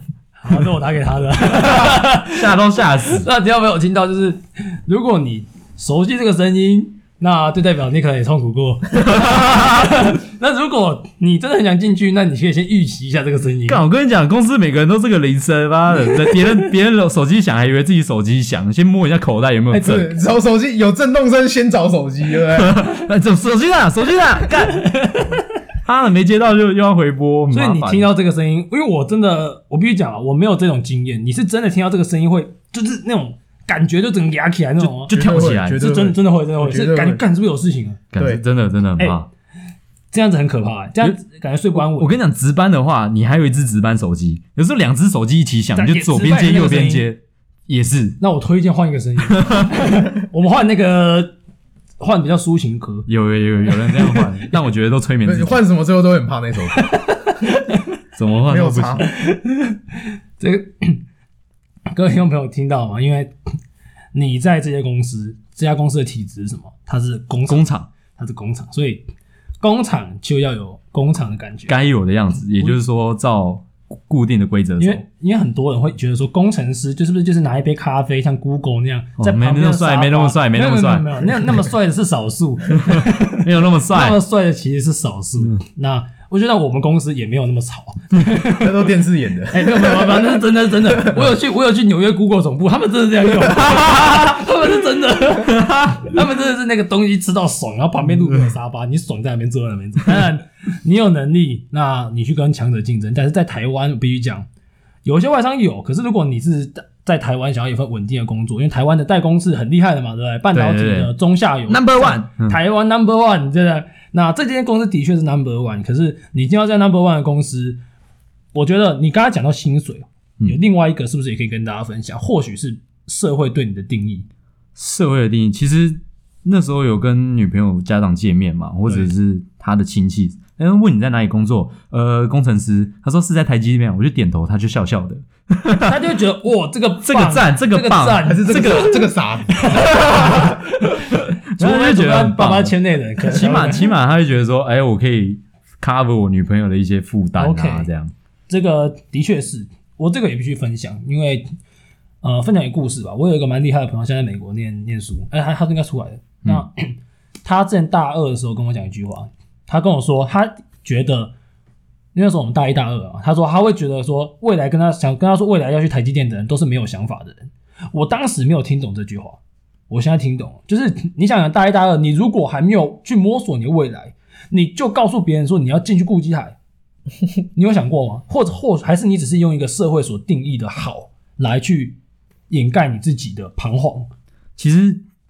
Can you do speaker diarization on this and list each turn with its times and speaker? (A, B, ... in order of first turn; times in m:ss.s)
0:00.4-0:02.5 A
0:01.5-0:03.3 B
0:03.1-0:13.8 A
0:09.0-0:10.0 B
0:13.6-0:20.2 B
0:19.7-0:22.9 C
0:22.5-0:25.0 B
0:24.8-0:25.4 A
0:25.8-0:28.1 B
0:27.5-0:38.0 A
0:34.8-0:35.8 B
0:35.1-0:37.2 C
0:38.1-0:39.3 B
0:38.2-0:38.4 C
0:40.1-0:42.1 A
0:41.8-0:48.2 B
0:45.7-0:47.1 A
0:48.2-0:51.3 A
0:49.3-0:49.8 B
0:52.0-0:53.1 A
0:53.1-0:55.6 B
0:53.7-0:54.3 A
0:55.2-0:57.1 C
0:56.7-0:57.8 A
0:58.2-0:59.1 B
0:58.4-0:59.1 C
0:59.0-1:01.0 A
1:01.9-1:03.3 A
1:04.1-1:09.1 A
1:07.5-1:07.9 B
1:09.6-1:11.8 A
1:11.7-1:15.0 B
1:14.8-1:28.8 A
1:19.2-1:21.3 B
1:22.8-1:24.2 B
1:28.4-1:31.1 C
1:29.5-1:44.5 A
1:35.5-1:36.0 B
1:45.0-1:57.8 A
1:50.5-1:51.1 B
1:51.7-1:52.6 B
1:58.5-2:04.3 A
2:04.8-2:16.0 B
2:15.8-2:19.0 A
2:17.0-2:19.0 B
2:18.2-2:20.4 C
2:19.5-2:23.9 A
2:20.0-2:20.6 B
2:21.5-2:28.1 B
2:27.4-2:27.9 A
2:28.5-2:31.5 A
2:32.2-2:41.3 A
2:42.1-2:56.6 A
2:57.5-3:02.0 A
3:02.5-3:04.1 A
3:04.6-3:05.0 B